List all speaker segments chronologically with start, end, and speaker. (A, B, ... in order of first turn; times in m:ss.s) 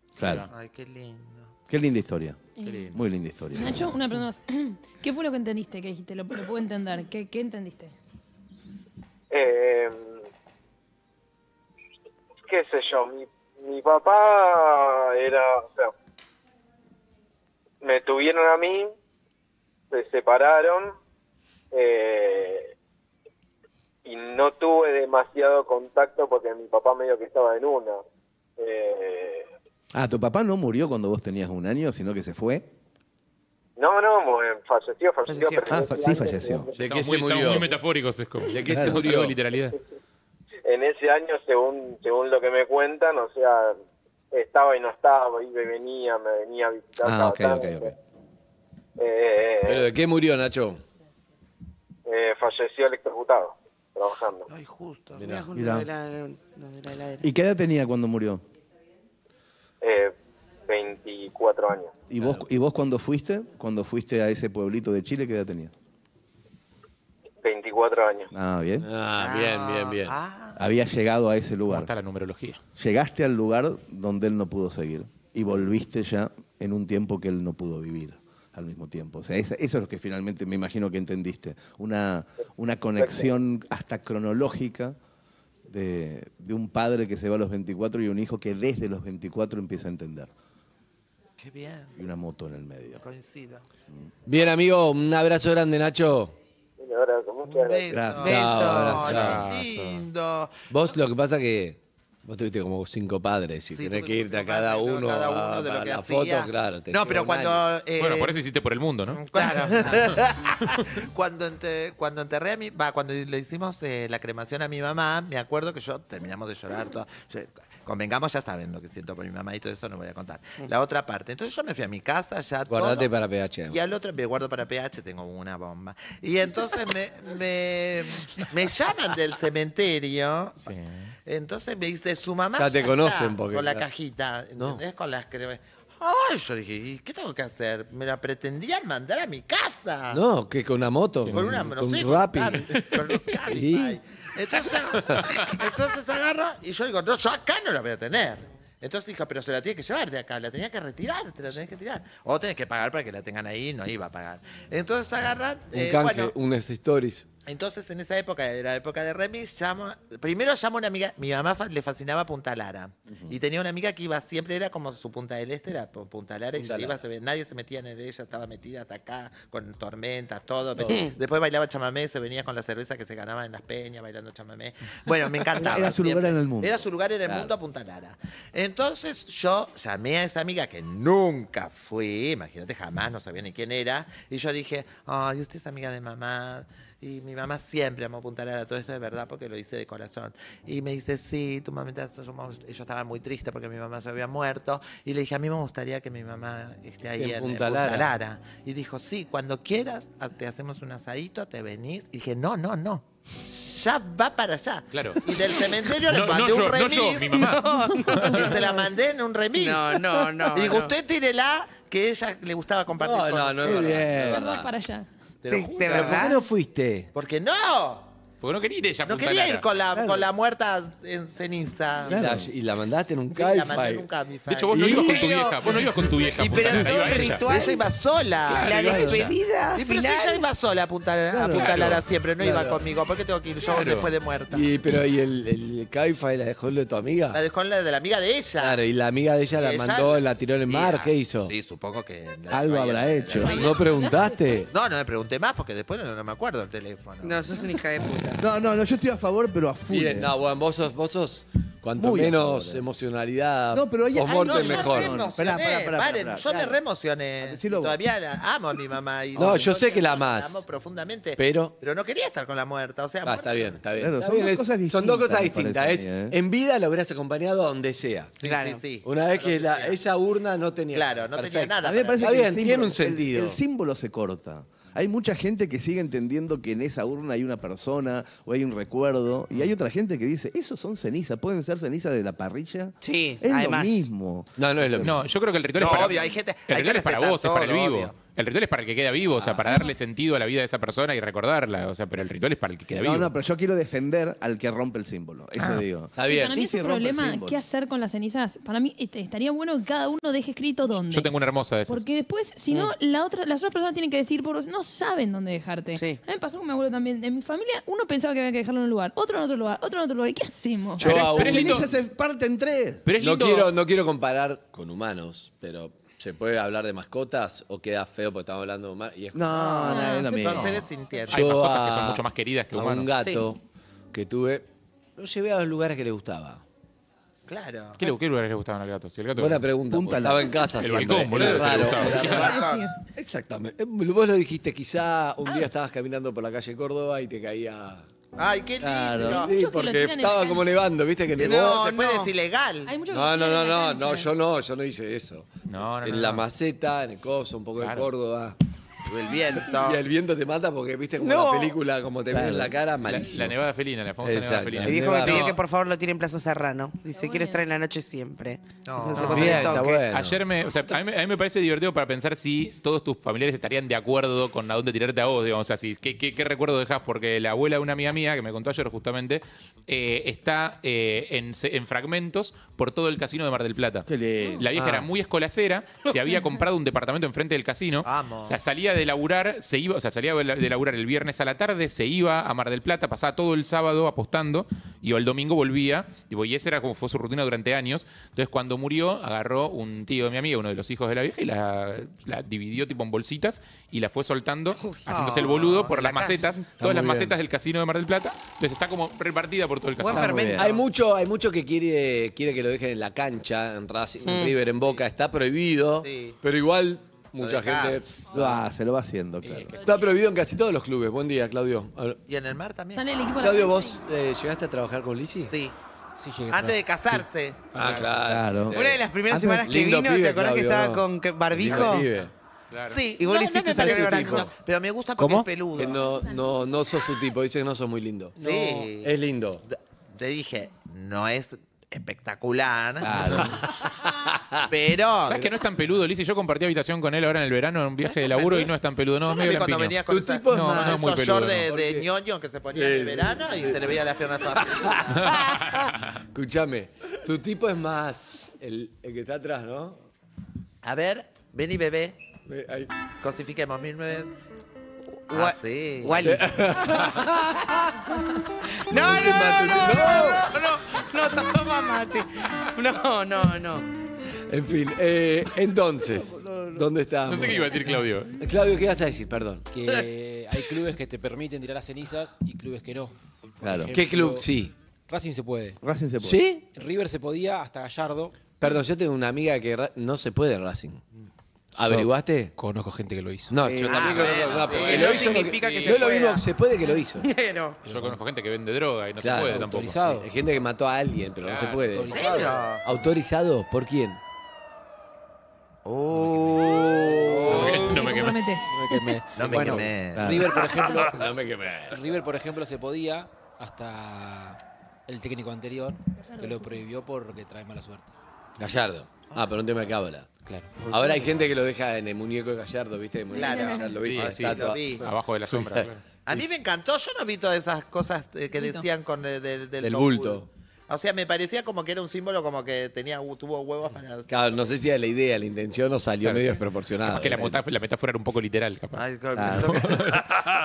0:00.2-0:00.5 A
0:00.5-0:01.5 B
0:01.7-0:03.8 A
0:02.6-0:02.9 C
0:03.5-0:07.9 C
0:09.3-0:10.2 D
0:12.5-0:15.9 D
0:17.8-0:18.9 D
0:19.9-0:20.9 D
0:21.7-0:22.7 D
0:24.0-0:28.0 D
0:28.6-0:29.5 D
0:29.9-0:32.7 A
0:33.8-0:36.8 D
0:35.2-0:35.7 E
0:35.7-0:36.7 A
0:36.8-0:37.7 F
0:36.8-0:39.8 G
0:38.5-0:39.4 F
0:38.7-0:39.0 A
0:40.6-0:43.8 D
0:44.3-0:47.9 D
0:47.0-0:47.9 A
0:49.0-0:49.9 D
0:49.6-0:50.8 F
0:52.1-0:54.5 D
0:54.5-0:55.2 B
0:55.2-0:55.4 F
0:55.2-0:57.2 E
0:55.5-0:55.9 A
0:57.2-0:58.4 A
0:59.8-1:00.1 D
1:00.6-1:01.9 D
1:02.1-1:05.7 A
1:02.2-1:02.4 F
1:07.4-1:08.3 D
1:08.3-1:08.8 A
1:08.8-1:10.1 F
1:09.2-1:10.6 B
1:10.6-1:11.9 A
1:11.7-1:12.6 G
1:12.8-1:25.0 A
1:23.0-1:23.3 D
1:25.7-1:30.3 A
1:31.4-1:32.0 B
1:32.0-1:33.0 A
1:33.0-1:33.6 B
1:34.2-1:36.4 F
1:36.8-1:37.9 D
1:37.4-1:40.6 B
1:37.9-1:38.3 A
1:38.2-1:39.1 E
1:38.2-1:39.4 F
1:39.0-1:40.0 G
1:40.7-1:47.6 F
1:43.7-1:48.4 B
1:48.0-1:49.2 G
1:49.1-2:03.1 B
1:49.4-1:49.7 E
2:02.7-2:03.8 F
2:03.7-2:10.6 B
2:10.6-2:11.1 G
2:11.2-2:20.2 B
2:12.6-2:13.8 F
2:20.1-2:22.7 F
2:21.2-2:21.6 G
2:21.3-2:36.3 B
2:23.5-2:24.0 F
2:35.7-2:37.2 F
2:37.4-3:27.5 B
2:46.6-2:46.9 F
2:50.8-2:51.1 F
2:50.8-2:51.1 E
2:55.6-2:57.5 A
3:17.2-3:18.1 F
3:24.9-3:25.2 G
3:26.0-3:28.6 G
3:27.4-3:28.8 E
3:28.3-3:34.1 B
3:29.5-3:30.9 E
3:33.0-3:34.7 F
3:33.6-3:34.3 A
3:34.3-3:35.1 C
3:35.4-3:36.4 E
3:35.8-3:37.1 F
3:37.1-3:38.1 B
3:38.4-3:39.6 G
3:39.0-3:42.2 B
3:39.9-3:40.3 A
3:42.1-3:42.5 A
3:42.1-3:44.1 F
3:43.3-3:45.8 B
3:44.5-3:47.5 G
3:44.7-3:45.2 F
3:45.2-3:45.5 E
3:46.4-3:47.9 E
3:46.4-3:49.0 B
3:48.4-3:49.4 G
3:48.6-3:50.5 E
3:48.8-3:49.2 A
3:49.7-3:54.8 B
3:51.3-3:51.9 A
3:51.5-3:52.0 G
3:52.4-3:52.8 F
3:53.6-3:54.1 G
3:54.5-3:57.4 F
3:57.3-3:58.8 B
3:58.6-4:01.5 F
3:59.5-4:03.8 B
4:02.5-4:03.6 A
4:03.4-4:04.7 F
4:04.7-4:07.4 B
4:07.2-4:08.4 E
4:08.4-4:10.3 A
4:09.9-4:15.2 F
4:12.0-4:12.8 A
4:13.7-4:16.8 A
4:14.3-4:23.8 B
4:17.4-4:18.0 A
4:19.3-4:20.6 F
4:21.4-4:21.7 F
4:23.2-4:28.3 F
4:24.0-4:26.4 A
4:28.4-4:30.0 B
4:28.4-4:28.8 E
4:29.0-4:33.6 F
4:30.9-4:32.5 B
4:31.8-4:45.2 A
4:43.0-4:44.0 E
4:44.6-4:45.1 F
4:45.0-4:53.3 G
4:45.8-4:48.1 B
4:52.9-4:57.6 A
4:56.2-4:56.5 F
4:56.2-5:01.3 C
5:01.0-5:02.0 G
5:01.9-5:11.0 C
5:05.9-5:06.2 E
5:11.0-5:11.8 F
5:11.0-5:11.9 G
5:11.0-5:13.0 A
5:13.0-5:13.7 G
5:13.2-5:19.5 F
5:19.3-5:20.8 A
5:19.7-5:21.4 B
5:19.9-5:20.5 C
5:21.3-5:23.1 G
5:21.3-5:23.6 F
5:23.2-5:23.5 E
5:24.1-5:24.6 F
5:25.2-5:26.6 F
5:27.5-5:28.0 B
5:28.0-5:29.6 G
5:29.4-5:32.5 F
5:29.9-5:31.7 A
5:30.8-5:32.4 G
5:31.6-5:32.8 B
5:32.2-5:33.0 C
5:33.1-5:38.0 F
5:38.4-5:39.5 B
5:38.8-5:39.5 A
5:39.3-5:40.7 C
5:39.3-5:41.9 F
5:41.4-5:42.3 E
5:41.4-5:42.9 B
5:42.8-5:44.3 C
5:43.1-5:45.5 F
5:45.6-5:46.4 G
5:46.0-5:48.6 F
5:47.8-5:48.1 G
5:49.0-5:50.0 B
5:49.6-5:53.5 F
5:51.2-5:51.8 E
5:52.3-5:52.8 A
5:53.1-5:55.6 G
5:54.2-5:55.6 F
5:54.8-6:00.0 E
5:57.1-5:57.6 C
5:58.9-5:59.8 B
5:59.2-6:00.4 F
6:00.1-6:14.0 G
6:14.1-6:14.7 A
6:14.6-6:40.4 G
6:18.0-6:18.6 B
6:34.8-6:35.2 E
6:35.1-6:36.6 B
6:36.8-6:37.3 F
6:40.0-6:40.8 E
6:40.1-6:40.7 A
6:40.6-6:48.6 F
6:44.2-6:44.6 E
6:46.0-6:46.4 B
6:47.4-6:48.0 B
6:48.3-6:49.7 A
6:49.8-6:52.2 F
6:52.3-6:53.1 B
6:52.9-6:54.0 C
6:53.4-6:55.5 F
6:55.5-6:55.7 B
6:56.1-6:56.8 H
6:56.5-6:57.6 B
6:57.7-6:59.1 F
6:58.2-6:59.7 A
6:58.7-7:02.1 E
6:59.6-7:02.3 F
7:02.7-7:03.0 G
7:02.9-7:06.0 B
7:03.1-7:04.5 E
7:03.8-7:04.5 F
7:05.8-7:09.6 F
7:08.4-7:09.1 B
7:09.6-7:13.5 B
7:13.0-7:13.6 A
7:13.8-7:14.7 F
7:14.7-7:15.5 B
7:15.2-7:21.7 G
7:18.1-7:25.4 B
7:20.1-7:22.1 F
7:22.7-7:24.0 F
7:24.5-7:25.4 F
7:25.4-7:25.9 G
7:26.3-7:30.0 F
7:30.8-7:32.2 B
7:32.5-7:32.9 F
7:33.2-7:34.3 B
7:35.3-7:37.2 E
7:35.3-7:36.2 B
7:36.1-7:37.7 F
7:38.9-7:43.8 E
7:38.9-7:40.5 F
7:44.5-7:47.7 F
7:46.2-7:46.8 A
7:47.3-7:48.3 G
7:48.4-7:49.6 F
7:49.7-7:54.5 H
7:53.6-7:53.9 A
7:53.9-7:54.7 F
7:55.1-7:55.8 H
7:55.8-7:56.4 A
7:56.2-7:56.6 F
7:56.7-7:58.4 H
7:58.6-8:01.0 F
8:01.7-8:02.5 F
8:01.8-8:02.1 A
8:02.6-8:03.5 H
8:03.5-8:07.3 F
8:03.6-8:04.5 A
8:03.9-8:05.4 B
8:04.7-8:06.4 E
8:07.2-8:07.8 E
8:07.8-8:10.0 G
8:09.2-8:14.2 F
8:09.5-8:10.3 H
8:11.4-8:12.1 G
8:11.9-8:12.6 H
8:12.1-8:12.8 B
8:15.8-8:17.9 B
8:16.8-8:17.8 F
8:17.5-8:18.4 G
8:17.9-8:19.0 C
8:19.3-8:20.6 B
8:19.5-8:19.8 F
8:19.5-8:19.8 E
8:20.1-8:20.5 A
8:20.2-8:21.2 H
8:20.9-8:22.0 F
8:21.9-8:28.1 H
8:26.2-8:26.8 C
8:28.6-8:30.3 F
8:30.4-8:30.8 G
8:30.9-8:35.9 F
8:33.3-8:35.1 B
8:33.4-8:33.9 C
8:34.0-8:36.0 G
8:36.3-8:44.6 B
8:38.6-8:38.8 C
8:39.8-8:40.5 F
8:44.3-8:47.6 F
8:46.2-8:49.0 G
8:49.0-8:50.2 B
8:49.4-8:49.8 A
8:49.8-8:50.2 F